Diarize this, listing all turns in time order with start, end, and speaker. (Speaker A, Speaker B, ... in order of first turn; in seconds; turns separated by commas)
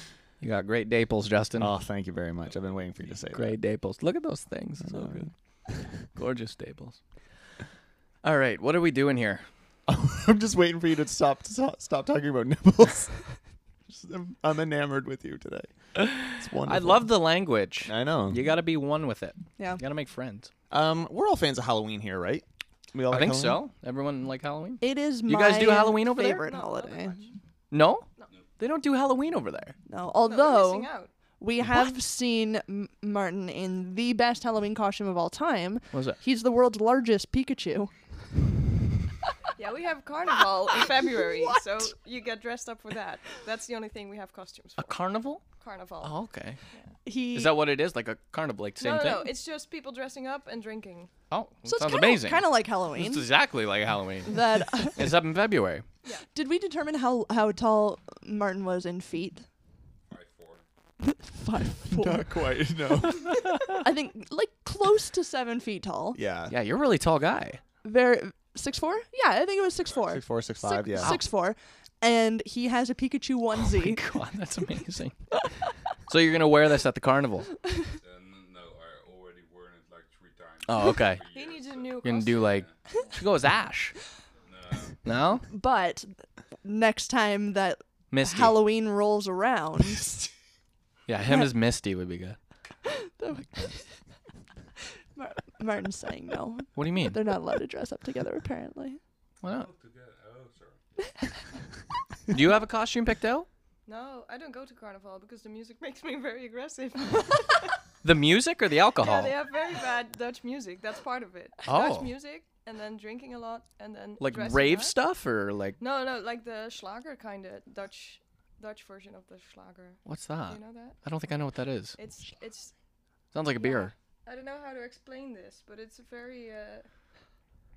Speaker A: 0.4-1.7, Speaker B: 1.6-3.6, Speaker A: 3.3-5.3, Speaker B: 4.8-5.3, Speaker A: 6.2-7.0, Speaker A: 8.2-9.4, Speaker B: 9.9-13.2, Speaker B: 13.9-17.1, Speaker A: 15.9-20.5, Speaker B: 17.9-18.4, Speaker B: 20.7-23.6, Speaker A: 23.1-26.4, Speaker C: 24.8-27.2, Speaker D: 26.4-27.3, Speaker A: 27.7-28.1, Speaker A: 28.6-29.7, Speaker C: 29.9-37.9, Speaker D: 30.2-31.1, Speaker A: 35.9-36.2, Speaker D: 39.6-45.0, Speaker A: 44.8-45.4, Speaker D: 45.6-46.1, Speaker A: 46.0-46.6, Speaker C: 47.0-47.5, Speaker A: 47.3-49.3, Speaker D: 48.8-51.1, Speaker A: 51.3-55.8, Speaker C: 51.7-53.3, Speaker C: 54.3-55.0, Speaker C: 56.3-59.5, Speaker E: 60.1-60.6, Speaker C: 61.0-62.2, Speaker B: 61.9-63.4, Speaker C: 63.3-66.2, Speaker B: 66.1-66.5, Speaker A: 66.5-67.6, Speaker C: 67.8-74.0, Speaker B: 70.0-71.2, Speaker A: 71.0-71.2, Speaker A: 73.6-75.2, Speaker A: 76.1-77.5, Speaker E: 78.0-82.8, Speaker A: 80.6-81.2, Speaker D: 81.3-83.2, Speaker A: 82.0-83.9, Speaker E: 84.4-85.1, Speaker A: 85.0-85.4, Speaker C: 85.5-86.1, Speaker C: 86.6-90.3, Speaker A: 88.1-88.6, Speaker A: 91.1-92.4, Speaker C: 92.8-93.8, Speaker C: 95.2-99.0, Speaker A: 96.8-97.2, Speaker A: 99.4-99.7, Speaker E: 99.4-100.8, Speaker A: 102.3-103.5, Speaker D: 103.8-107.7, Speaker A: 108.0-109.4, Speaker D: 109.0-115.0, Speaker A: 111.7-112.1, Speaker A: 114.2-115.8, Speaker D: 115.8-121.0, Speaker A: 120.0-122.0, Speaker D: 122.0-122.7, Speaker A: 123.3-123.9, Speaker D: 123.5-126.8